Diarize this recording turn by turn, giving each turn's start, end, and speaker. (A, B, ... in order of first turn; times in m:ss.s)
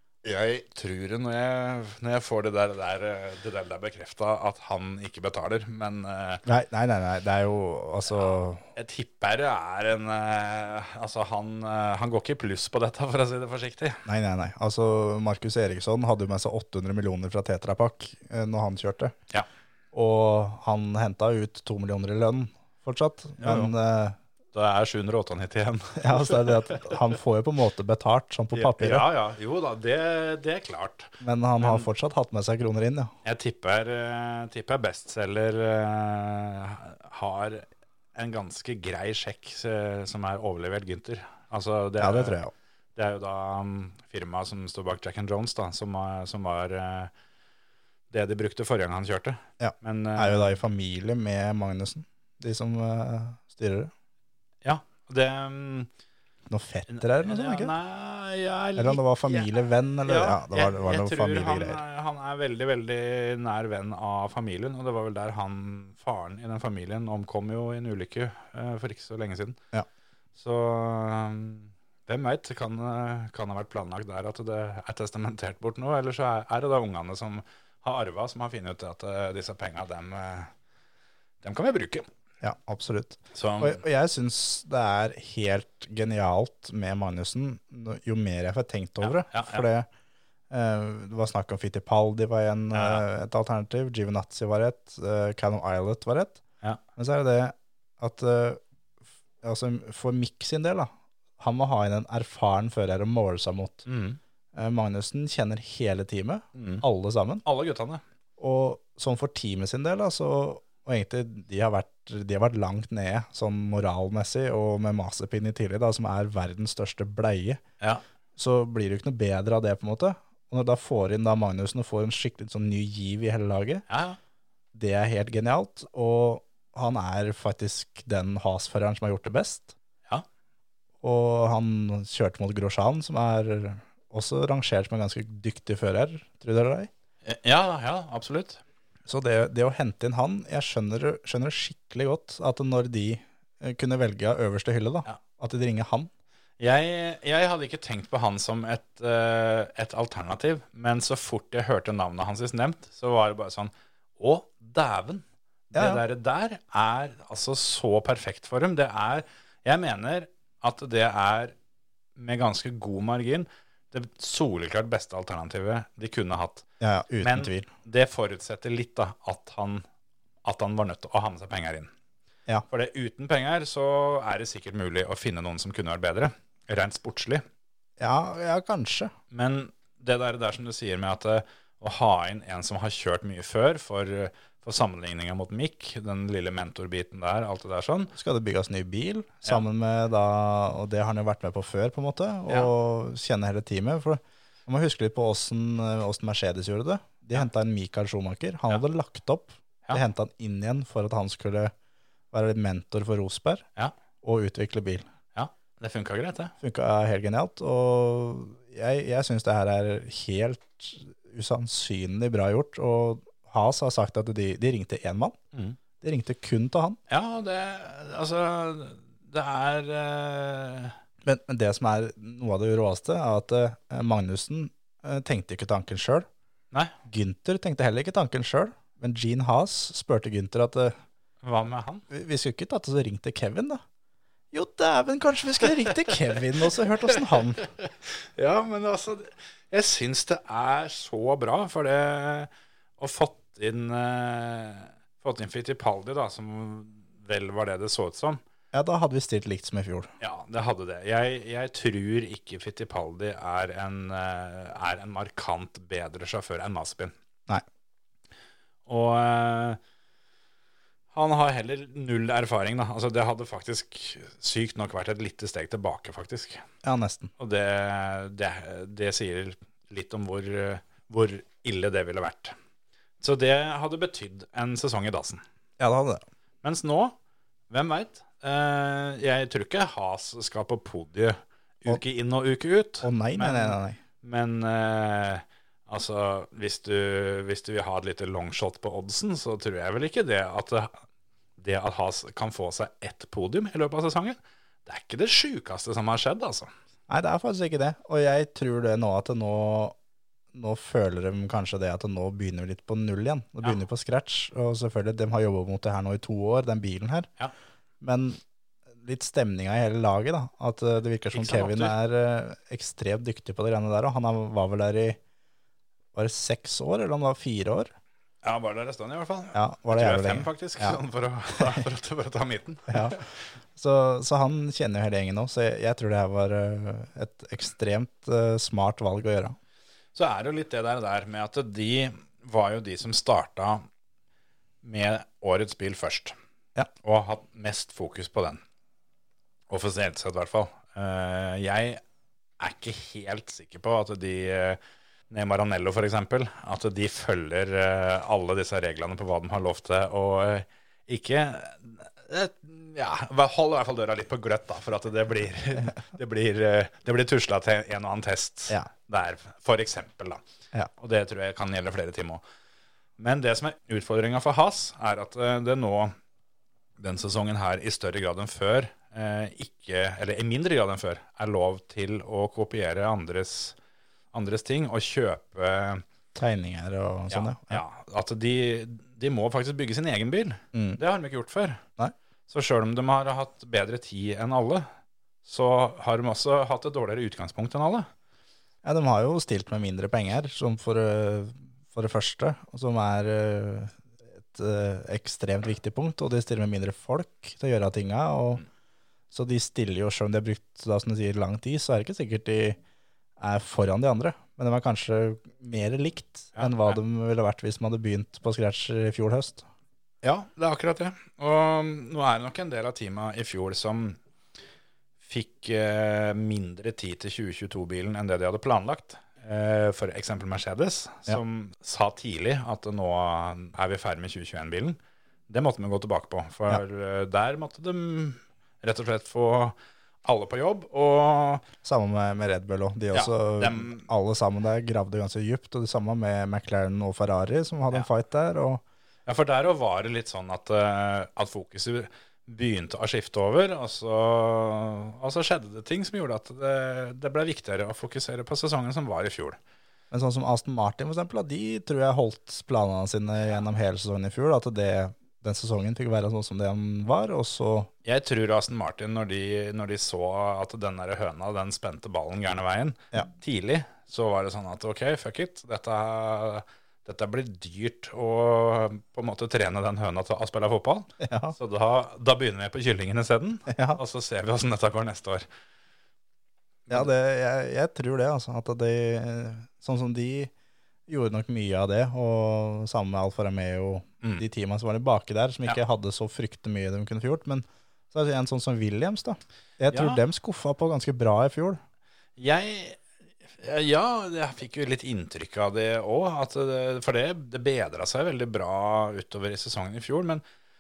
0:00.2-0:06.4 A
0:06.4-0:08.6 B
0:08.1-0:14.0 A
0:14.1-0:19.2 B
0:19.9-0:24.2 B
0:23.4-0:23.7 A
0:24.5-0:27.0 A
0:26.0-0:29.1 B
0:28.5-0:31.9 A
0:31.2-0:33.1 B
0:33.2-0:42.4 A
0:42.0-0:42.5 B
0:43.0-0:47.1 A
0:48.1-0:50.6 A
0:49.6-0:53.9 B
0:54.6-0:55.9 A
0:56.5-0:57.7 B
0:56.9-0:59.5 A
0:58.8-1:01.8 B
1:00.1-1:09.6 A
1:10.4-1:20.5 A
1:21.4-1:22.1 A
1:22.4-1:29.9 B
1:23.3-1:23.8 A
1:29.0-1:29.7 A
1:30.5-1:36.4 B
1:32.7-1:33.0 A
1:37.0-1:38.6 B
1:39.4-1:43.8 B
1:43.9-1:44.2 A
1:44.5-1:47.4 B
1:46.6-1:46.8 A
1:47.4-1:48.0 A
1:48.4-1:57.6 B
1:58.4-2:03.8 B
2:03.9-2:04.2 A
2:04.7-2:09.8 B
2:11.0-2:16.9 B
2:17.2-2:18.6 A
2:19.1-2:26.1 B
2:26.6-2:41.5 A
2:35.8-2:36.0 B
2:42.2-2:46.7 A
2:46.8-2:47.7 B
2:47.2-2:49.9 A
2:50.4-2:51.9 A
2:52.7-2:57.4 A
2:58.0-2:59.1 B
2:59.3-3:08.1 A
3:08.2-3:21.7 B
3:22.3-3:23.7 B
3:24.2-3:25.1 B
3:25.4-3:26.5 A
3:26.6-3:35.4 B
3:36.0-3:37.0 B
3:37.1-3:41.0 A
3:41.2-3:46.3 B
3:47.0-3:51.0 B
3:51.4-3:52.0 A
3:52.1-3:53.8 B
3:54.5-3:57.6 B
3:57.6-4:08.4 A
4:08.7-4:10.1 B
4:10.2-4:17.1 A
4:18.9-4:19.8 A
4:21.1-4:26.6 A
4:26.8-4:27.3 B
4:27.4-4:32.6 A
4:33.2-4:35.4 A
4:35.8-4:36.2 B
4:36.6-4:37.2 A
4:37.7-4:51.0 A
4:43.0-4:44.0 B
4:51.6-4:56.7 A
4:57.1-5:00.0 B
5:00.5-5:07.3 B
5:08.0-5:08.4 B
5:09.0-5:15.2 B
5:11.3-5:12.0 A
5:16.2-5:17.9 B
5:18.4-5:23.3 A
5:19.5-5:21.0 B
5:22.9-5:23.2 B
5:23.8-5:29.6 B
5:30.2-5:33.8 A
5:34.8-5:36.4 A
5:37.0-5:38.6 A
5:39.7-5:42.0 A
5:42.6-6:00.4 A
6:01.0-6:02.4 A
6:03.2-6:06.2 A
6:07.0-6:13.8 A
6:14.3-6:16.0 A
6:16.4-6:17.8 B
6:17.3-6:21.8 A
6:20.7-6:21.0 B
6:22.5-6:24.9 A
6:25.4-6:28.1 A
6:28.8-6:38.6 B
6:39.3-6:42.8 B
6:43.4-6:49.7 B
6:46.6-6:47.0 A
6:50.2-6:54.2 A
6:55.2-7:05.0 A
7:05.5-7:11.7 A
7:11.8-7:18.8 B
7:13.1-7:14.1 A
7:19.3-7:29.6 A
7:30.1-7:37.9 B
7:38.0-7:55.5 A
7:51.2-7:51.6 B
7:53.7-7:54.0 B
7:56.9-8:00.5 B
8:01.1-8:11.8 B
8:09.9-8:10.2 A
8:12.4-8:13.0 A
8:13.6-8:20.4 A